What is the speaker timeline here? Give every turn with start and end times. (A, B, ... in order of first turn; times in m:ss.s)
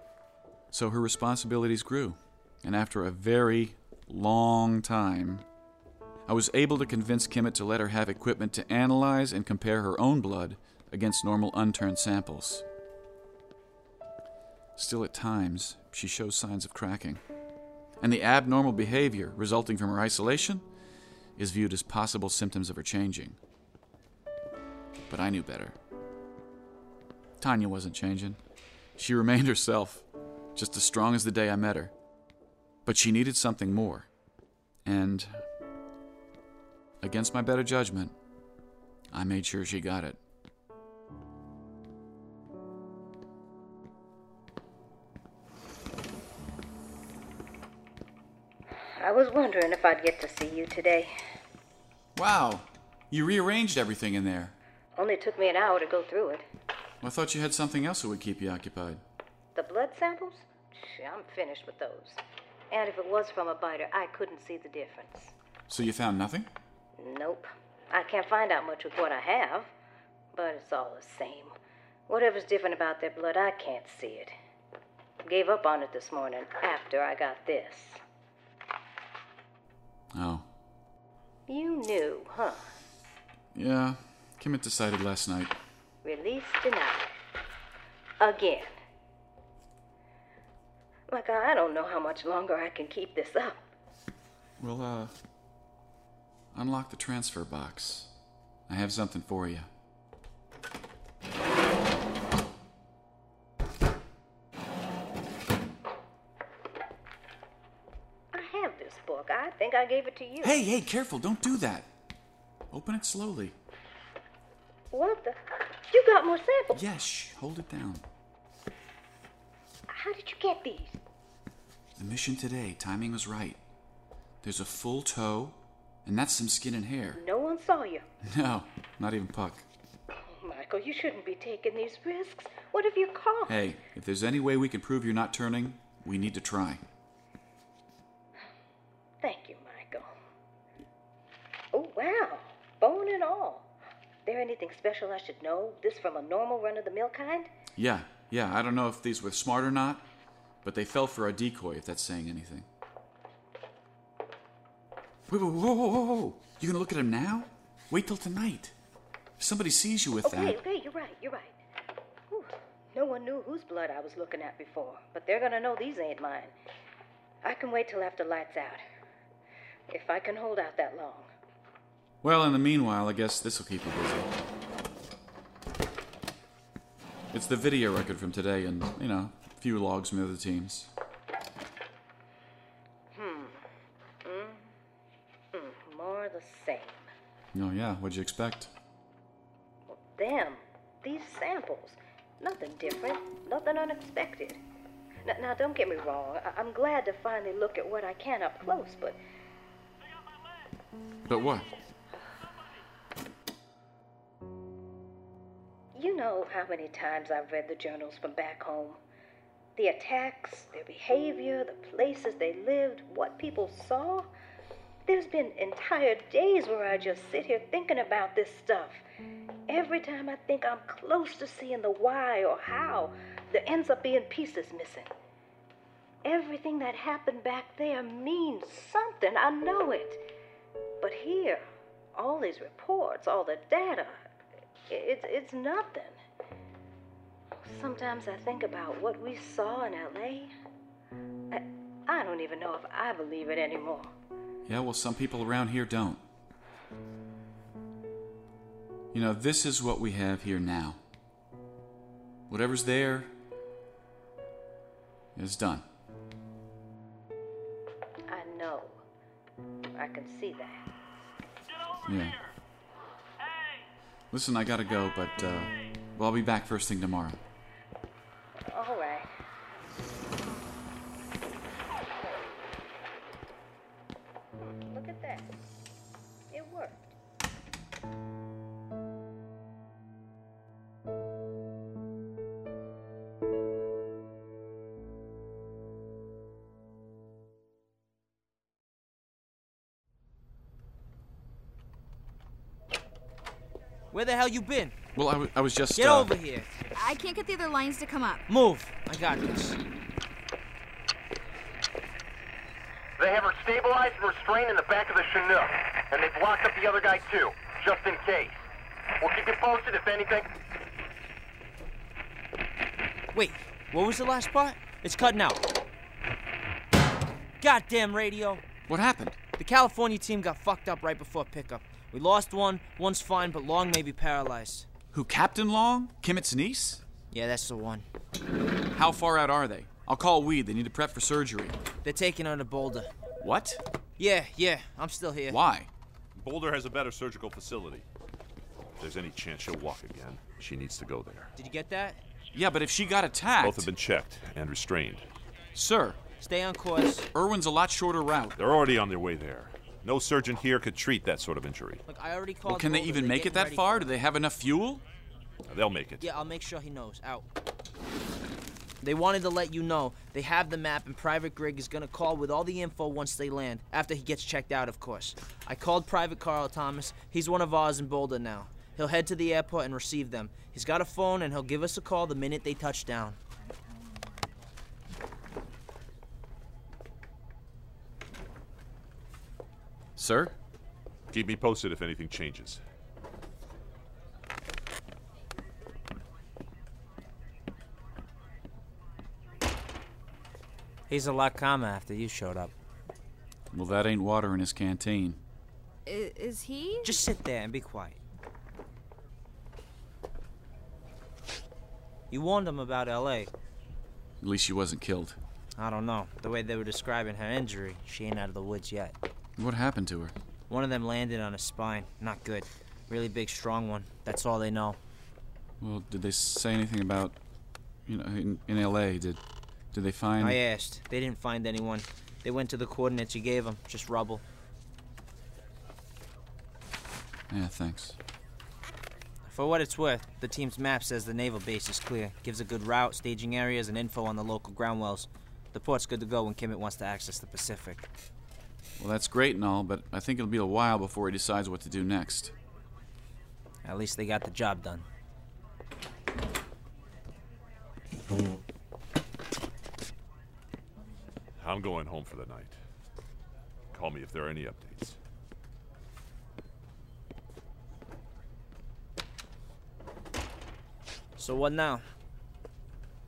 0:00.7-0:05.4 A
0:06.3-0:12.6 A
0:14.8-0:17.2 A
0:18.0-0:20.6 A
0:21.4-0:23.4 A
0:25.1-0:25.8 A
0:27.4-0:28.4 A
0:29.0-0:31.9 A
0:32.9-0:34.1 A
0:34.8-0:35.4 A
0:37.0-0:38.2 A
0:39.1-0:40.2 A
0:49.0-0:51.2 B
0:52.2-0:54.6 A
0:55.0-0:56.4 B
0:57.0-0:59.0 A
0:59.6-1:02.2 B
1:02.7-1:05.3 B
1:05.7-1:06.5 A
1:07.0-1:09.7 B
1:10.3-1:11.5 B
1:12.1-1:14.4 B
1:15.2-1:18.0 B
1:20.1-1:20.4 A
1:21.5-1:22.7 B
1:23.6-1:25.6 A
1:26.0-1:27.1 B
1:28.2-1:28.8 B
1:31.1-1:33.6 B
1:34.6-1:35.2 A
1:36.5-1:38.1 A
1:38.7-1:39.7 A
1:48.3-1:50.6 B
1:50.4-1:51.9 A
1:52.7-1:53.6 A
1:54.9-1:56.8 B
1:56.7-1:58.0 A
1:59.9-2:01.0 B
2:02.0-2:03.6 A
2:04.4-2:07.2 A
2:07.2-2:08.0 B
2:08.3-2:09.6 A
2:10.3-2:13.6 B
2:13.5-2:16.8 A
2:19.2-2:20.1 B
2:21.7-2:23.7 B
2:24.2-2:27.5 B
2:27.8-2:30.0 A
2:30.6-2:32.7 A
2:35.3-2:38.7 A
2:39.4-2:40.6 A
2:40.2-2:41.6 B
2:42.3-2:46.5 B
2:47.4-2:48.8 B
2:49.9-2:51.3 B
2:52.2-2:54.3 A
2:57.3-3:00.9 A
3:03.1-3:03.7 B
3:04.2-3:04.7 B
3:05.5-3:07.1 B
3:07.5-3:08.7 A
3:09.9-3:14.6 B
3:15.2-3:19.2 B
3:21.3-3:21.7 A
3:26.0-3:29.0 B
3:29.8-3:34.3 B
3:35.1-3:39.0 B
3:39.7-3:45.1 B
3:46.2-3:50.2 B
3:51.0-3:51.6 B
3:52.2-3:54.2 B
3:54.9-3:56.2 B
3:57.6-4:00.5 B
4:01.5-4:04.1 B
4:04.7-4:06.2 A
4:09.1-4:11.0 A
4:12.5-4:13.3 A
4:15.4-4:15.8 A
4:18.3-4:19.0 B
4:20.0-4:20.9 B
4:22.1-4:22.4 A
4:24.3-4:27.4 A
4:28.7-4:29.3 B
4:34.8-4:35.5 B
4:36.5-4:37.1 B
4:54.1-4:55.0 C
4:55.2-4:56.3 A
4:56.0-4:56.7 C
4:56.9-4:58.4 D
4:58.5-4:59.8 C
5:03.2-5:08.6 E
5:09.2-5:10.5 E
5:13.3-5:15.6 C
5:17.6-5:18.6 C
5:18.9-5:19.4 A
5:19.6-5:24.9 C
5:25.1-5:27.0 A
5:27.3-5:28.1 C
5:29.0-5:31.8 A
5:32.0-5:33.1 C
5:33.4-5:33.8 A
5:34.2-5:35.6 C
5:35.5-5:35.9 A
5:36.4-5:38.0 F
5:39.0-5:41.5 F
5:41.6-5:42.2 C
5:42.5-5:43.9 A
5:43.6-5:45.3 F
5:45.8-5:46.2 A
5:46.4-5:47.3 C
5:47.3-5:48.6 A
5:48.6-5:52.0 F
5:52.1-5:54.1 C
5:52.7-5:55.0 A
5:55.7-5:56.3 F
5:56.2-5:57.5 C
5:59.0-6:13.4 C
6:20.2-6:20.5 A
6:21.3-6:22.8 F
6:31.1-6:32.7 C
6:33.7-6:35.4 A
6:36.1-6:37.2 D
6:37.0-6:38.2 C
6:42.3-6:43.5 C
6:44.4-6:45.4 A
6:45.8-6:49.2 C
6:49.6-6:50.4 A
6:50.7-6:55.0 C
6:55.8-6:57.4 A
6:58.1-6:59.4 A
6:59.9-7:00.6 A
7:00.4-7:04.4 C
7:07.5-7:08.2 A
7:09.5-7:18.1 C
7:19.0-7:22.6 A
7:23.8-7:25.1 C
7:31.6-7:32.8 F
7:33.9-7:35.2 F
7:41.4-7:42.1 C